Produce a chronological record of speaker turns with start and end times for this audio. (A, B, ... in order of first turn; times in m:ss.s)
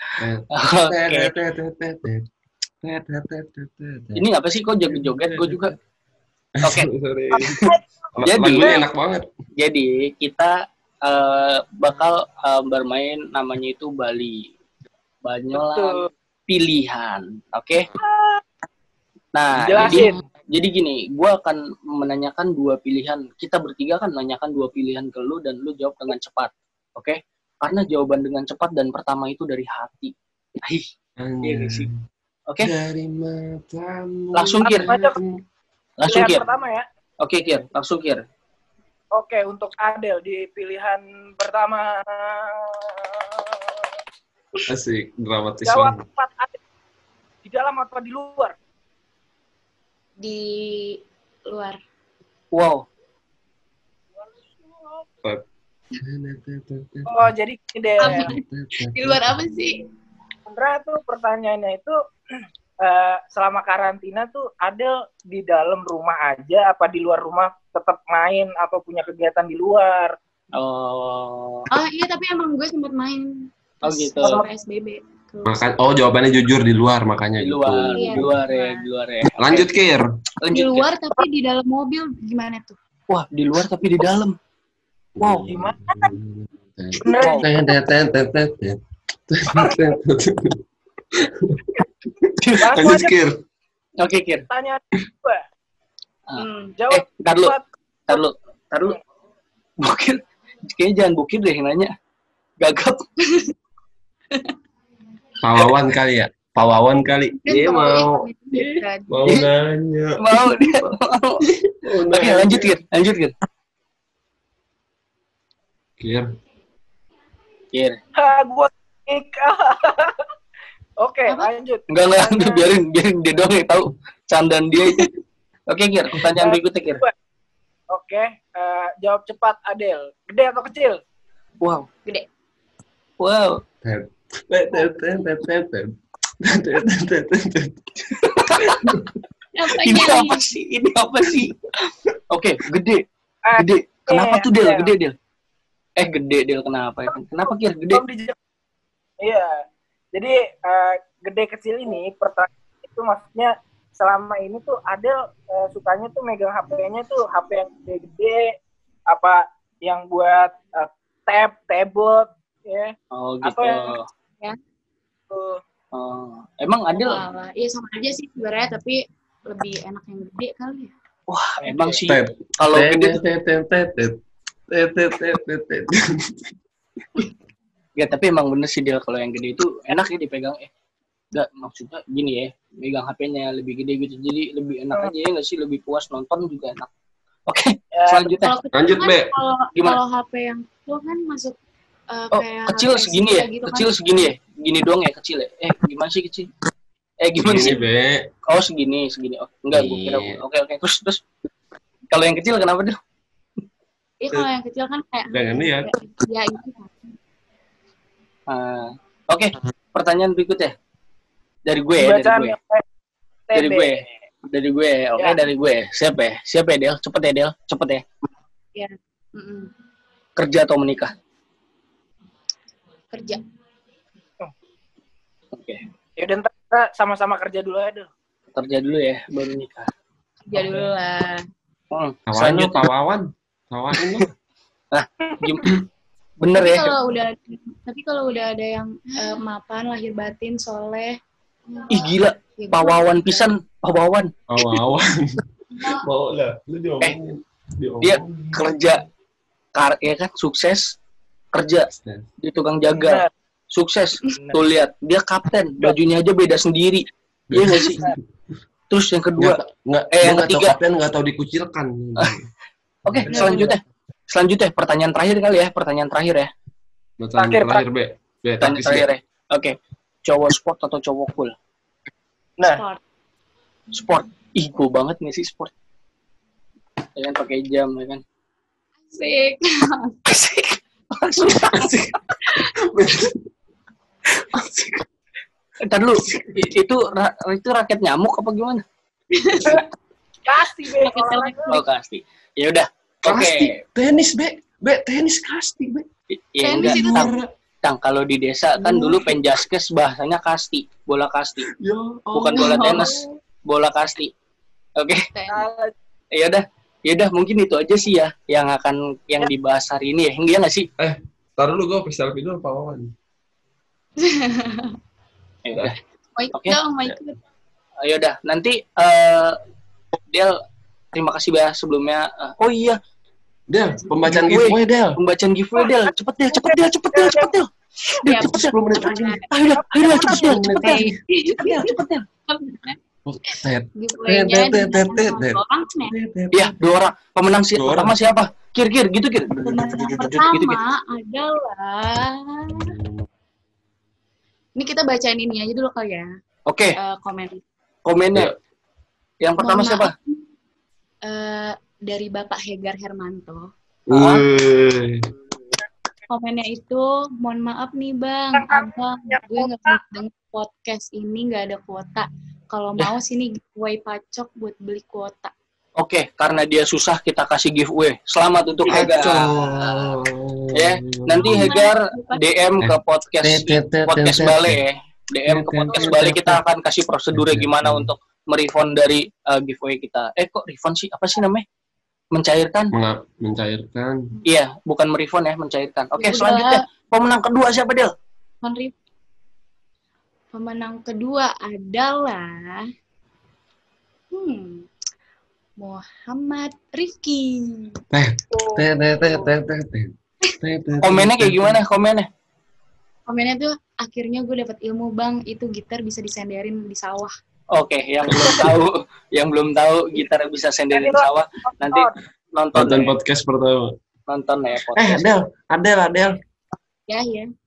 0:00.2-0:02.2 A
0:00.5-0:01.3 B
0:02.8-0:04.2 A
0:04.2-0:05.7 B
0:04.9-0:05.7 A
0:06.6-0:07.6 A
0:06.6-0:07.7 B
0:08.2-0:09.2 A
0:08.2-0:08.8 B
0:08.5-0:08.8 C
0:09.6-0:14.5 B
0:15.2-0:17.9 B
0:15.5-0:16.0 C
0:18.0-0:18.4 C
0:19.4-0:30.9 B
0:19.5-0:20.1 C
0:31.2-0:31.9 A
0:31.4-0:31.9 B
0:32.6-0:35.4 A
0:34.4-0:34.9 B
0:34.6-0:35.2 C
0:36.0-0:36.4 B
0:36.1-0:36.9 C
0:37.2-0:38.2 B
0:39.1-0:43.9 C
0:44.7-0:46.0 A
0:45.6-0:46.6 C
0:47.4-0:48.6 C
0:50.2-0:51.8 D
0:52.5-0:52.8 B
0:54.4-0:55.1 C
0:56.0-0:57.3 A
0:57.1-0:58.3 C
0:58.0-0:59.8 D
0:58.0-0:59.4 A
1:00.5-1:02.0 C
1:02.8-1:10.2 C
1:10.6-1:11.7 B
1:11.7-1:13.3 D
1:13.8-1:15.6 D
1:13.8-1:14.4 B
1:15.4-1:18.3 A
1:17.4-1:19.7 B
1:17.9-1:18.8 D
1:19.4-1:20.0 A
1:20.4-1:20.9 B
1:20.5-1:22.8 D
1:23.1-1:24.4 B
1:25.2-1:30.6 A
1:25.2-1:25.5 B
1:25.5-1:26.1 C
1:27.0-1:27.6 C
1:27.2-1:27.5 B
1:31.1-1:33.4 A
1:32.4-1:32.8 B
1:32.6-1:33.1 C
1:34.0-1:34.4 B
1:34.5-1:35.4 C
1:36.3-1:37.6 B
1:36.4-1:36.7 D
1:36.8-1:38.2 C
1:38.1-1:39.0 B
1:39.8-1:41.9 B
1:42.6-1:43.0 B
1:43.2-1:43.5 D
1:45.4-1:48.2 A
1:47.4-1:49.1 D
1:49.1-1:50.6 A
1:50.2-1:51.4 B
1:51.7-1:52.8 A
1:52.1-1:53.3 B
1:56.0-1:56.3 A
1:58.2-2:00.2 C
2:01.0-2:02.7 C
2:01.9-2:05.1 B
2:05.7-2:07.0 B
2:06.3-2:07.1 C
2:07.9-2:11.0 C
2:11.6-2:11.9 B
2:13.2-2:13.6 B
2:13.8-2:17.8 A
2:18.0-2:18.8 B
2:18.6-2:19.1 A
2:19.6-2:20.5 D
2:19.7-2:23.0 B
2:23.4-2:24.9 C
2:23.6-2:25.1 B
2:26.0-2:28.0 B
2:27.1-2:28.4 C
2:29.2-2:29.6 C
2:30.1-2:38.6 C
2:39.1-2:44.0 C
2:43.1-2:44.1 B
2:45.3-2:45.6 C
2:45.9-2:47.2 B
2:46.9-2:50.9 D
2:51.3-2:53.2 B
2:51.6-2:52.1 C
2:52.1-2:54.1 A
2:54.7-2:56.5 A
2:58.0-3:00.7 B
3:01.3-3:06.9 B
3:07.5-3:08.5 B
3:07.9-3:08.4 C
3:08.4-3:11.6 D
3:08.7-3:09.3 A
3:12.1-3:14.0 D
3:12.3-3:16.5 B
3:17.2-3:17.8 B
3:17.4-3:18.3 A
3:18.4-3:21.2 B
3:19.7-3:20.4 A
3:22.1-3:23.0 B
3:24.2-3:27.1 D
3:25.3-3:25.9 A
3:28.5-3:30.7 B
3:31.6-3:32.6 B
3:32.0-3:32.8 C
3:33.5-3:34.1 C
3:33.6-3:38.0 B
3:35.2-3:35.4 C
3:38.7-3:39.7 D
3:40.4-3:41.1 B
3:43.1-3:43.4 D
3:45.5-3:45.8 B
3:46.2-3:48.1 C
3:48.6-3:49.9 B
3:50.4-3:51.4 D
3:50.6-3:50.8 B
3:51.9-3:52.8 B
3:52.3-3:54.3 A
3:53.9-3:54.2 B
3:54.9-3:55.8 B
3:56.4-3:56.9 B
3:56.5-4:03.6 D
4:01.9-4:04.3 B
4:04.5-4:08.8 A
4:08.0-4:09.0 B
4:09.7-4:10.9 B
4:11.5-4:11.9 B
4:11.9-4:12.3 A
4:12.4-4:18.0 B
4:12.9-4:13.3 C
4:17.5-4:18.2 A
4:18.9-4:19.6 B
4:19.4-4:22.5 A
4:20.1-4:20.8 B
4:23.1-4:26.5 B
4:23.1-4:23.6 A
4:23.3-4:23.7 D
4:27.2-4:29.1 A
4:27.4-4:27.8 C
4:28.6-4:29.7 B
4:30.2-4:31.5 B
4:32.6-4:33.0 D
4:33.9-4:35.7 B
4:37.2-4:38.2 B
4:39.1-4:40.2 D
4:40.3-4:41.9 B
4:41.4-4:43.4 A
4:44.5-4:45.0 A
4:45.8-4:48.8 B
4:46.2-4:46.6 A
4:49.4-4:49.8 D
4:50.4-4:51.8 C
4:51.0-4:51.8 D
4:51.7-4:53.8 B
4:53.2-4:56.1 A
4:56.3-4:57.3 B
4:56.6-4:57.4 D
4:56.8-4:57.5 A
4:57.8-5:01.7 B
4:58.8-4:59.2 D
5:01.7-5:03.2 A
5:02.3-5:04.3 B
5:02.6-5:03.3 D
5:05.0-5:05.3 B
5:05.3-5:05.6 D
5:05.5-5:05.9 C
5:06.3-5:10.9 B
5:11.0-5:13.1 A
5:14.2-5:14.9 D
5:15.6-5:16.0 B
5:16.4-5:17.4 D
5:18.0-5:19.6 B
5:20.3-5:20.6 B
5:21.1-5:23.0 B
5:23.7-5:25.2 A
5:23.9-5:24.4 D
5:24.2-5:28.7 B
5:26.5-5:27.5 C
5:28.2-5:29.5 D
5:28.4-5:29.4 A
5:29.5-5:31.0 B
5:29.7-5:30.6 C
5:30.2-5:31.1 A
5:30.7-5:32.0 D
5:31.6-5:32.2 B
5:32.5-5:33.0 D
5:33.2-5:36.7 A
5:34.0-5:36.1 D
5:36.5-5:40.8 B
5:37.8-5:38.2 A
5:39.6-5:40.5 A
5:39.6-5:42.9 D
5:42.7-5:43.2 A
5:44.8-5:46.3 D
5:46.7-5:46.9 B
5:47.0-5:47.6 D
5:48.1-5:48.5 B
5:49.4-5:50.1 B
5:49.6-5:50.4 D
5:51.2-5:53.7 D
5:54.1-5:55.3 A
5:54.1-5:54.4 B
5:56.3-6:05.5 D
5:58.6-6:00.0 C
6:06.0-6:09.9 B
6:08.9-6:11.7 A
6:10.7-6:21.6 B
6:11.4-6:12.4 D
6:12.8-6:14.8 A
6:15.4-6:16.6 A
6:17.3-6:18.1 A
6:22.3-6:22.9 B
6:22.9-6:24.2 A
6:24.4-6:28.1 B
6:26.2-6:26.8 D
6:28.6-6:28.9 D
6:30.5-6:32.8 D
6:34.3-6:34.9 D
6:35.8-6:38.0 D
6:38.1-6:41.8 A
6:38.5-6:39.5 C
6:41.0-6:42.3 B
6:43.3-6:47.3 D
6:47.7-6:53.1 B
6:48.3-6:48.6 A
6:50.9-6:51.3 C
6:51.8-6:52.1 C
6:52.7-6:53.9 A
6:54.3-6:55.3 B
6:54.9-6:56.4 A
6:57.1-6:57.5 D